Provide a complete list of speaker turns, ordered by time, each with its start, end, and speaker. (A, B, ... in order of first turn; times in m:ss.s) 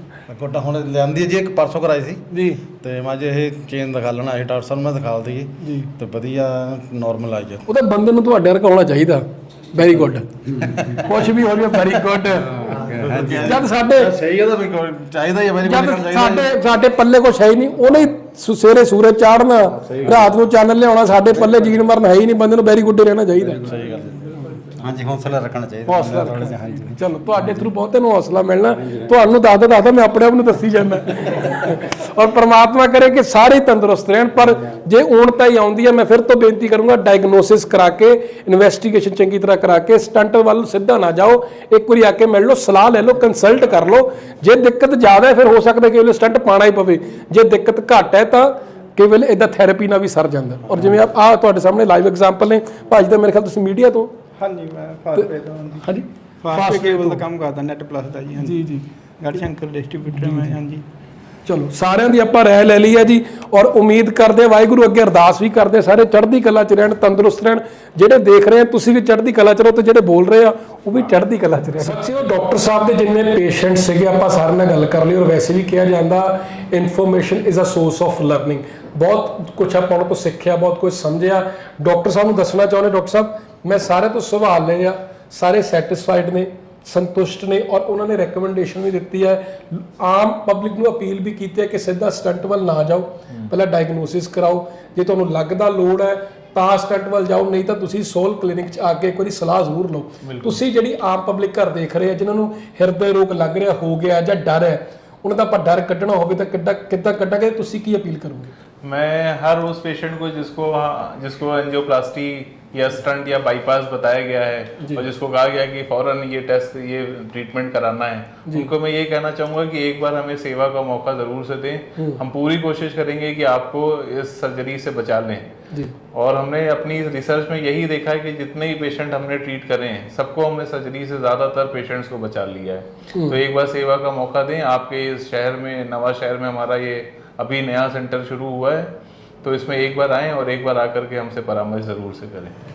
0:00.3-0:02.2 A
0:02.3-0:02.6 B
0:02.8-0:07.6 A
0:05.6-0:05.9 B
0:07.7-0:10.2 B
0:10.5-0:11.0 C
0:10.7-0:11.1 A
0:11.0-0:12.5 B
0:12.5-0:13.7 C
0:12.6-0:16.5 A
0:13.4-0:14.1 B
0:15.6-0:23.6 B
0:19.8-0:20.4 A
0:23.4-0:27.7 C
0:23.6-0:24.0 A
0:25.9-0:54.2 B
0:28.7-0:29.3 C
0:54.4-1:00.8 D
0:55.1-0:57.2 B
0:58.4-0:58.8 B
1:00.1-1:00.6 B
1:01.4-1:48.5 B
1:40.2-1:40.6 E
1:48.8-2:05.5 E
2:06.1-2:18.9 E
2:19.4-2:22.6 E